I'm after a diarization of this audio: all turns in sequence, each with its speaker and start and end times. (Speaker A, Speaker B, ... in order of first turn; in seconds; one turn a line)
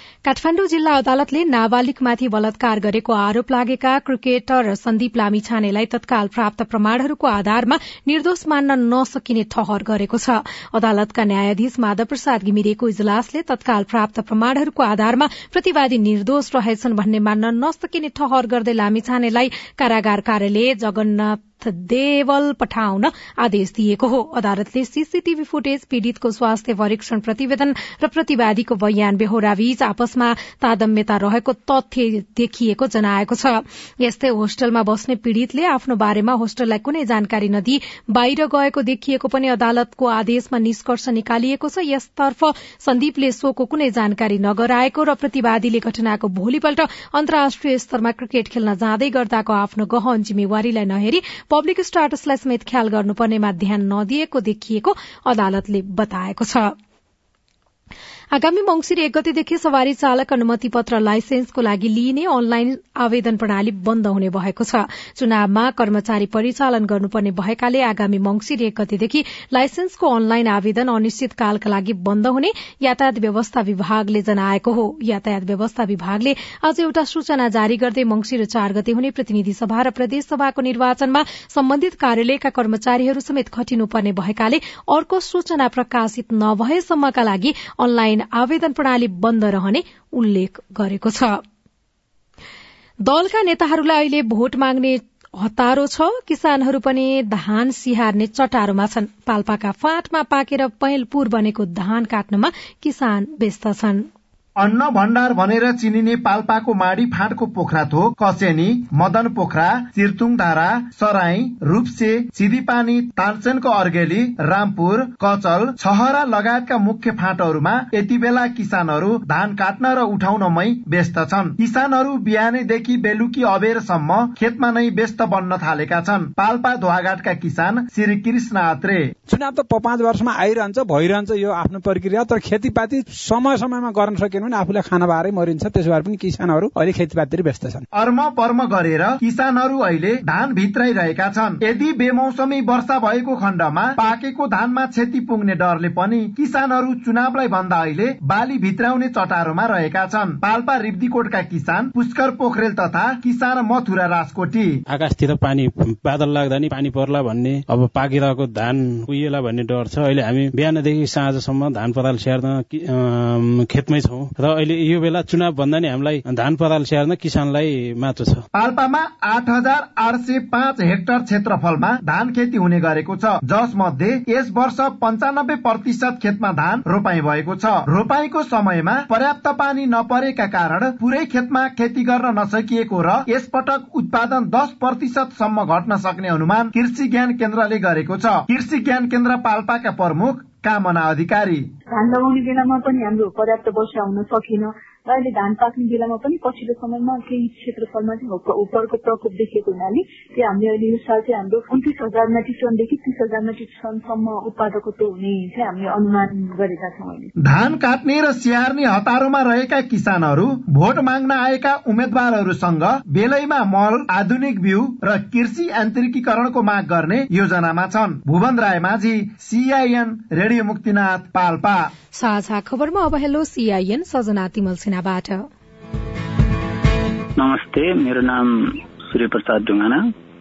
Speaker A: 0.2-56.7
Speaker A: 58.3-91.4
Speaker A: 93.0-104.0
Speaker B: 104.6-129.1
Speaker C: 129.3-137.8
Speaker B: 137.9-154.7
Speaker D: 154.9-168.4
Speaker B: 168.5-191.7
Speaker E: 191.9-207.3
Speaker B: 207.4-221.9
Speaker A: 222.1-225.5
Speaker F: 227.4-230.1